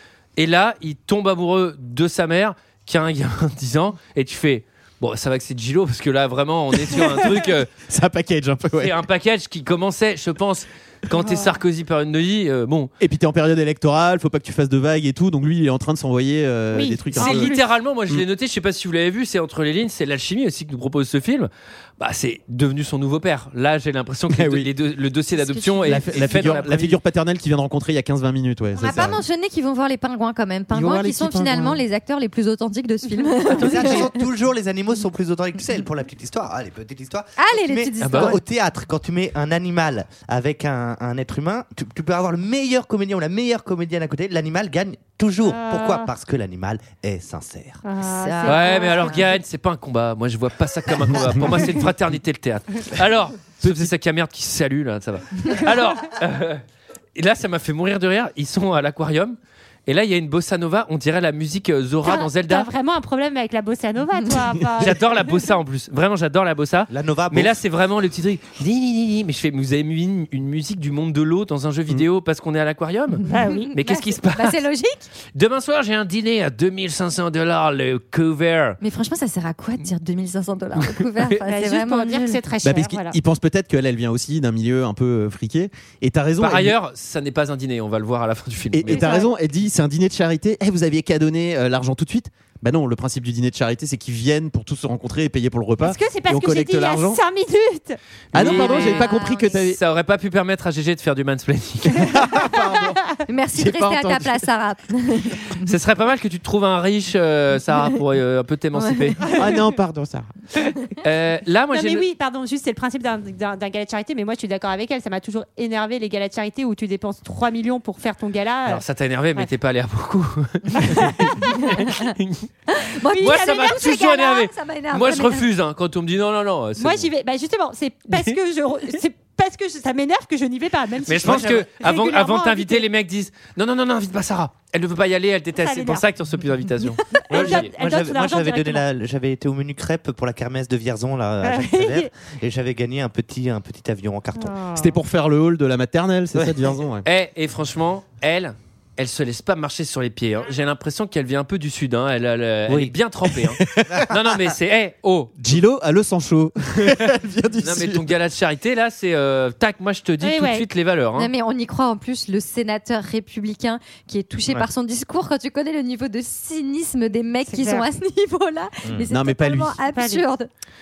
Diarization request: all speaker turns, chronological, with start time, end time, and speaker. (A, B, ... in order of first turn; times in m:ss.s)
0:00.4-0:07.7 A
0:06.9-0:09.0 B
0:08.8-0:12.9 A
0:13.0-0:17.6 B
0:16.7-0:17.6 C
0:17.2-0:27.0 A
0:24.3-0:24.7 B
0:25.4-0:26.6 D
0:25.8-0:29.2 B
0:28.8-0:34.2 D
0:30.7-0:31.8 B
0:33.6-0:47.8 E
0:37.4-0:38.4 D
0:38.0-0:38.4 A
0:45.5-0:46.1 C
0:47.8-0:49.4 C
0:48.0-0:49.2 D
0:48.5-0:56.6 A
0:57.2-1:02.7 A
1:02.0-1:05.4 C
1:04.8-1:14.6 A
1:06.9-1:07.6 E
1:13.3-1:15.0 D
1:13.3-1:13.7 C
1:15.3-1:18.8 A
1:18.8-1:22.4 D
1:21.4-1:23.2 C
1:22.6-1:26.8 B
1:26.4-1:29.1 A
1:28.7-1:37.2 B
1:28.9-1:29.3 C
1:35.8-1:38.0 C
1:38.3-1:39.8 B
1:38.3-1:42.2 A
1:38.4-1:39.6 D
1:41.9-1:43.0 B
1:43.3-1:45.5 D
1:43.5-1:44.5 B
1:45.6-1:49.2 A
1:48.8-1:49.6 D
1:49.3-1:50.3 B
1:51.0-1:52.1 A
1:51.7-1:58.8 C
1:58.7-2:02.5 A
2:00.8-2:01.5 C
2:02.7-2:05.5 D
2:03.2-2:07.1 A
2:03.2-2:03.5 C
2:06.8-2:12.9 C
2:11.1-2:17.7 A
2:15.6-2:16.0 C
2:17.2-2:18.8 C
2:17.3-2:24.6 E
2:21.4-2:22.1 C
2:24.4-2:25.0 C
2:24.8-2:27.0 B
2:26.3-2:26.6 E
2:27.0-2:35.4 A
2:33.4-2:34.1 B
2:35.4-2:38.1 B
2:37.6-2:41.3 A
2:40.2-2:40.7 C
2:41.2-2:50.5 D
2:47.5-2:47.9 C
2:49.1-2:49.8 B
2:49.9-2:50.2 C